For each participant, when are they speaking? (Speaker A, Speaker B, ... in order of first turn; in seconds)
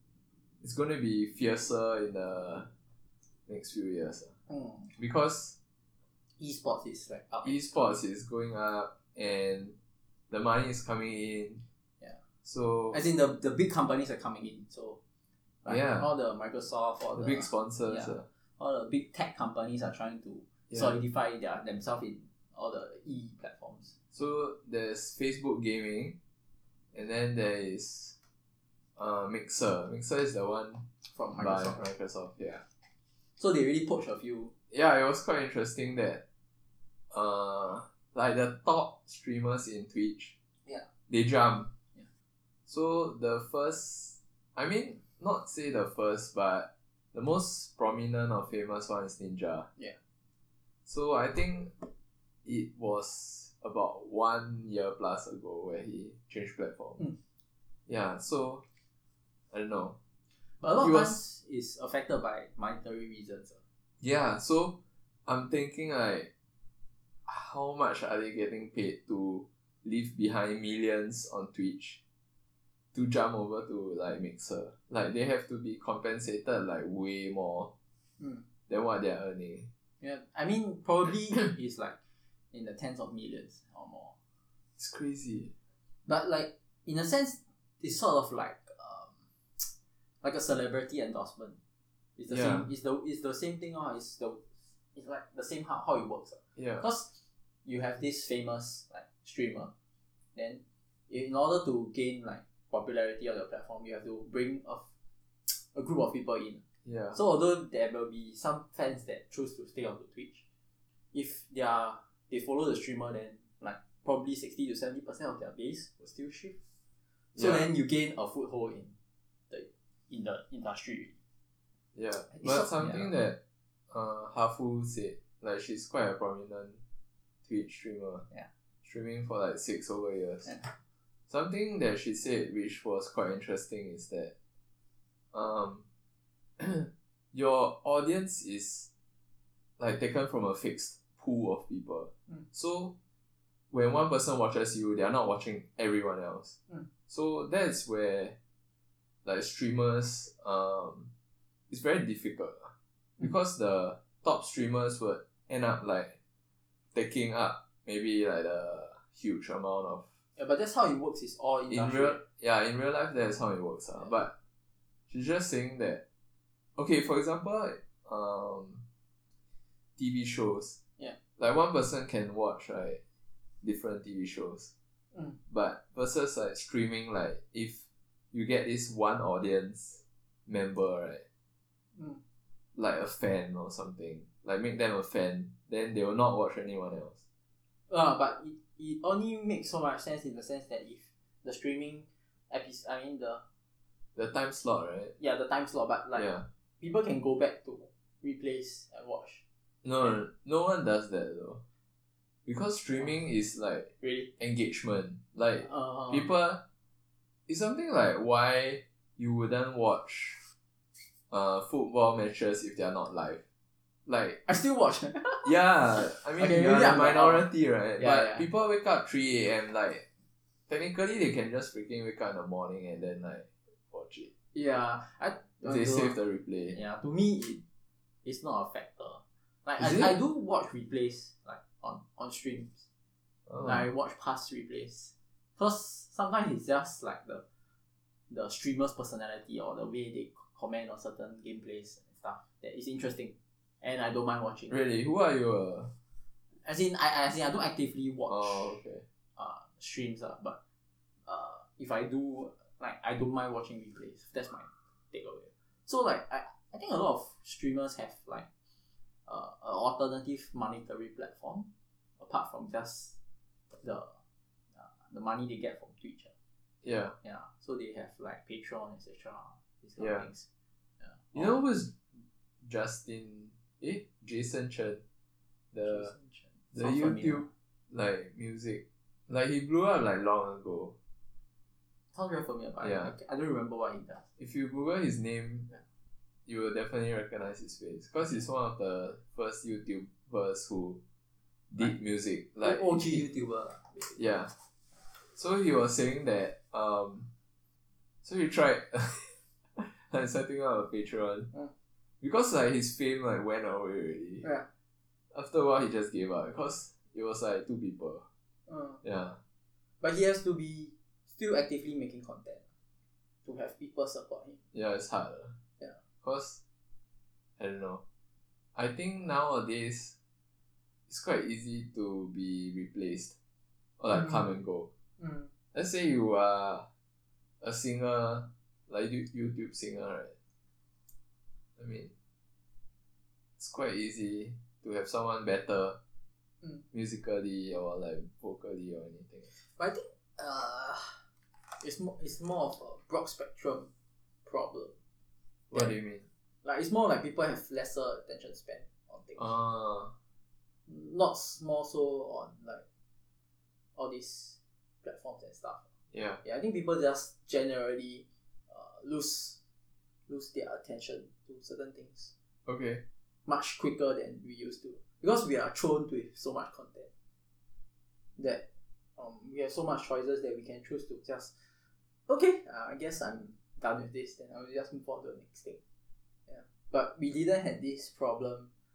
Speaker A: 0.6-2.7, 3.5-4.3, 4.9-5.5, 7.4-9.8, 10.3-11.6, 12.4-13.0, 15.7-16.1, 17.1-18.2, 24.1-26.1, 26.9-28.1, 29.0-30.8, 31.4-32.6, 34.7-36.2, 37.1-40.3, 41.1-41.7, 42.7-49.7, 50.9-51.7, 52.4-57.0, 57.9-58.6, 59.5-60.0, 60.8-61.2, 64.0-64.7, 65.2-66.3, 67.2-72.0, 72.9-77.7, 78.7-79.7, 84.8-85.5, 92.3-92.7, 96.5-96.8, 106.8-107.2, 117.3-117.6, 121.9-126.8, 127.4-128.2, 128.8-130.6, 131.3-134.3, 135.3-135.8, 136.6-138.9, 139.8-142.9, 143.7-146.6, 147.1-148.3, 149.2-151.1, 151.7-156.2, 156.9-160.1, 161.7-164.3, 165.1-166.0, 166.8-168.8, 170.0-170.8, 171.4-173.0, 173.6-174.7, 175.5-181.2, 182.8-187.2, 194.2-195.1, 196.2-196.4, 199.8-201.6, 202.4-206.6, 207.5-210.4, 211.3-213.4, 214.1-214.4, 215.4-220.0, 220.7-224.3, 225.6-226.8, 229.8-230.1, 233.5-233.8, 244.7-245.9, 248.3-249.0, 266.8-267.1, 270.0-270.2, 271.3-272.0, 272.6-275.0, 275.7-276.1, 276.7-280.9, 282.8-283.1, 284.4-285.7, 286.5-291.0, 291.7-293.2, 294.1-294.5, 295.3-297.3, 298.2-301.5, 302.2-304.5, 305.3-308.2, 309.0-309.4, 314.7-315.6, 316.2-316.6, 317.6-318.0, 318.7-320.1, 321.1-323.3, 324.0-324.9, 325.7-326.9, 327.6-330.3, 331.8-332.1, 333.6-336.0, 336.9-339.5, 345.7-346.2, 349.4-350.1, 356.1-356.4, 362.6-363.0
Speaker B: 4.5-4.9, 6.4-7.9, 12.9-15.0, 15.6-23.9, 31.1-31.9, 33.4-34.5, 60.6-63.6, 78.2-78.4, 80.0-82.0, 82.5-84.1, 86.0-89.7, 90.2-91.6, 92.2-99.7, 100.3-104.8, 105.5-106.6, 107.1-110.4, 111.1-116.6, 117.3-118.9, 119.5-121.1, 122.3-123.1, 160.4-162.2, 181.9-182.2, 187.9-193.4, 195.2-199.4, 204.0-204.3, 205.7-206.2, 214.4-215.5, 216.4-217.4, 218.0-218.4, 224.5-226.2, 226.7-227.6, 228.2-232.8, 233.6-237.4, 238.3-244.7, 246.6-248.7, 249.4-250.6, 251.2-258.5, 259.2-263.1, 263.7-264.1, 264.7-266.3, 267.2-270.4, 271.0-271.6, 275.8-277.5, 282.1-284.2, 292.6-294.1, 308.7-309.0, 310.0-312.6, 313.4-314.6, 325.2-325.5, 339.5-341.2, 341.8-343.9, 344.4-344.9, 346.6-349.5, 350.9-352.8, 353.9-355.8, 356.4-359.6, 360.3-362.3, 363.4-367.1, 368.4-368.6, 369.2-371.5, 372.3-375.8, 376.5-378.7